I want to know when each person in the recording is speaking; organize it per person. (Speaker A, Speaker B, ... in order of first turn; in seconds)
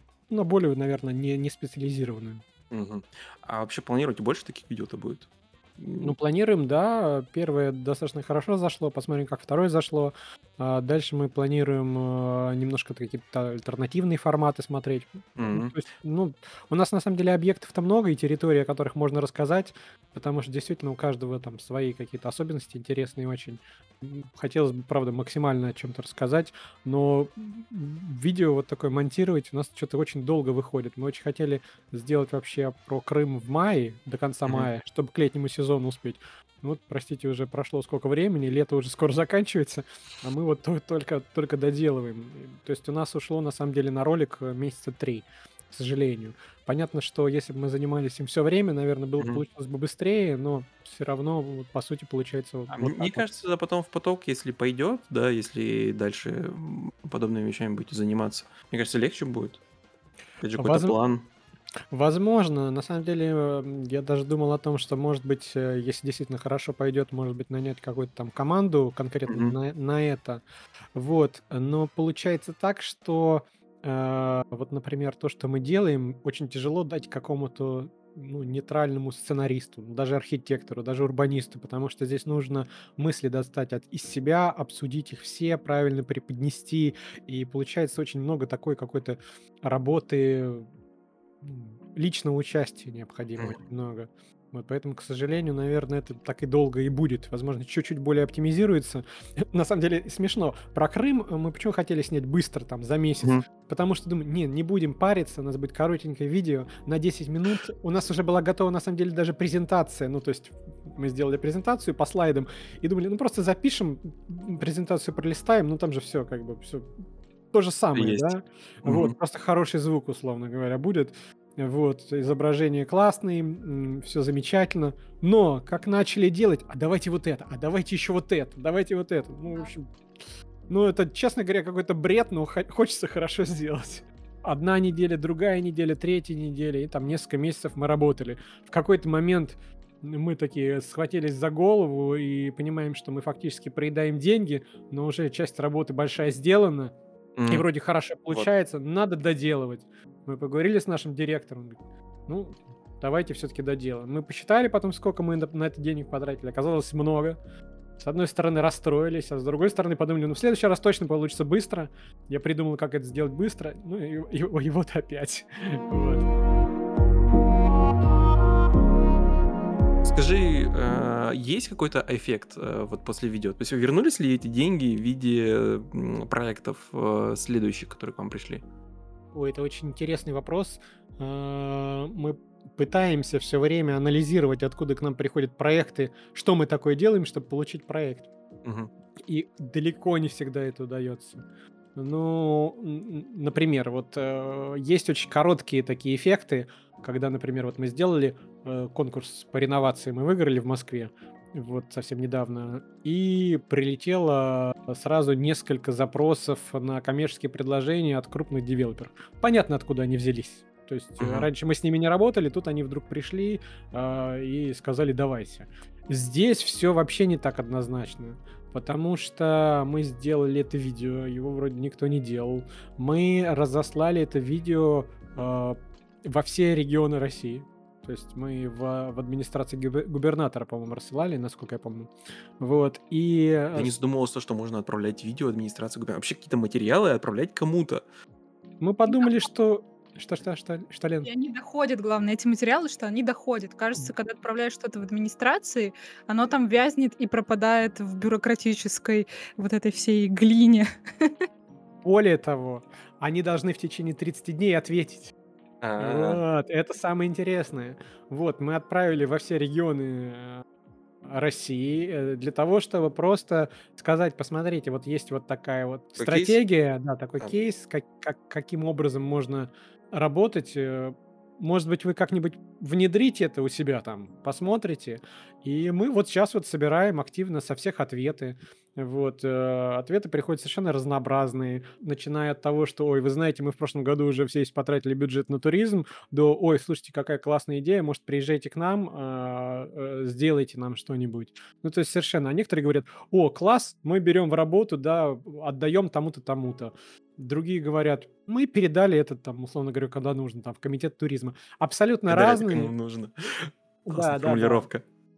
Speaker A: 0.3-2.4, 6.0-53.3, 60.6-61.0, 61.9-70.4, 71.0-90.7, 91.4-116.9, 117.5-129.9, 130.7-146.9, 147.5-157.4, 158.0-166.3, 179.3-188.3, 189.2-191.4, 191.9-233.9, 238.8-241.3, 252.0-255.3, 256.0-260.6, 261.3-302.9, 304.1-304.9
Speaker B: 2.7-6.2, 15.4-15.8, 52.7-59.6, 60.4-61.2, 69.3-69.5, 117.9-118.3, 118.8-119.1, 147.4-147.7, 170.0-178.6, 188.6-188.9, 211.2-211.5, 233.7-238.0, 255.8-256.4, 266.2-266.6, 302.3-305.0
Speaker C: 239.1-239.4, 241.2-251.4